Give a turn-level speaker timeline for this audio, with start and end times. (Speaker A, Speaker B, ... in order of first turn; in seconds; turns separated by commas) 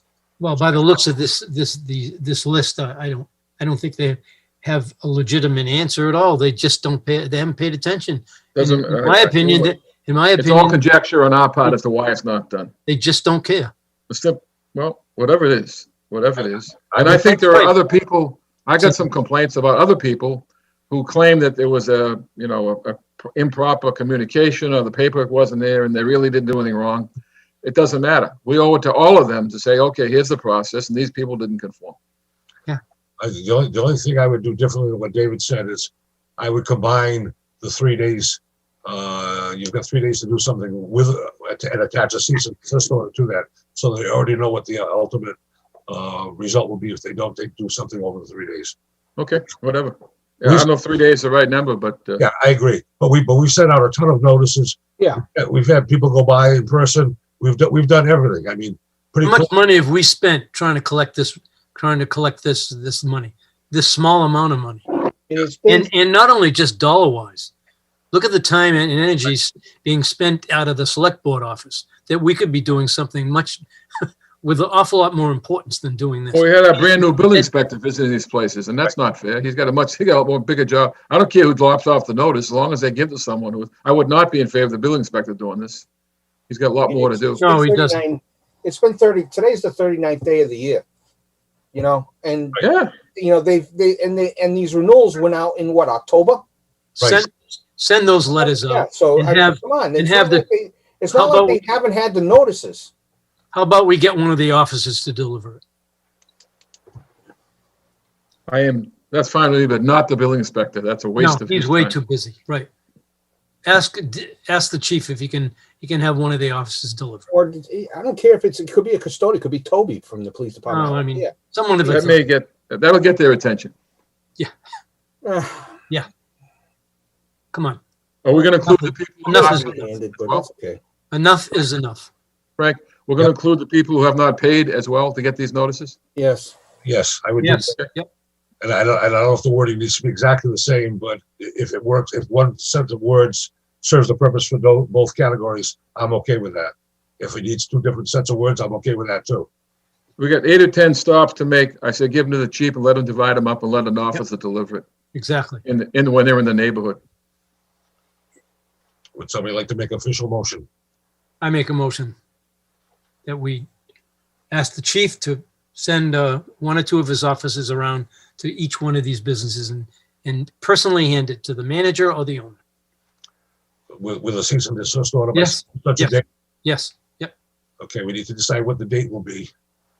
Speaker A: 0.4-10.8, Speaker B: 8.6-9.7, Speaker B: 10.4-12.7, Speaker A: 12.9-13.7, Speaker B: 14.1-27.1, Speaker C: 16.9-17.2, Speaker A: 17.1-17.7, Speaker B: 27.6-32.0, Speaker C: 33.2-45.4, Speaker C: 45.9-48.8, Speaker B: 49.2-52.2, Speaker C: 52.2-59.5, Speaker A: 59.2-65.0, Speaker D: 65.3-65.9, Speaker A: 65.7-67.5, Speaker A: 68.1-77.5, Speaker B: 76.3-85.8, Speaker B: 86.5-87.4, Speaker D: 86.9-90.8, Speaker A: 87.4-88.0, Speaker D: 91.7-92.6, Speaker B: 92.6-92.9, Speaker D: 93.2-96.4, Speaker A: 97.0-100.5, Speaker D: 98.4-102.9, Speaker A: 101.1-101.6, Speaker A: 103.5-105.6, Speaker B: 108.5-112.0, Speaker A: 111.2-112.7, Speaker A: 113.7-117.3, Speaker D: 117.3-121.3, Speaker A: 120.7-122.2, Speaker B: 121.8-123.7, Speaker D: 125.2-125.7, Speaker A: 127.5-127.8, Speaker B: 128.2-130.5, Speaker A: 128.6-129.9, Speaker D: 129.3-130.8, Speaker A: 131.1-132.1, Speaker B: 132.6-136.0, Speaker D: 136.2-136.5, Speaker C: 136.8-137.8, Speaker A: 137.4-138.1, Speaker C: 138.6-149.5, Speaker B: 150.2-154.8, Speaker A: 155.1-155.6, Speaker B: 155.6-157.0, Speaker C: 159.2-160.7, Speaker A: 161.4-162.2, Speaker A: 163.3-163.7, Speaker A: 164.5-172.6, Speaker C: 173.9-176.2, Speaker A: 175.3-177.3, Speaker C: 177.8-179.5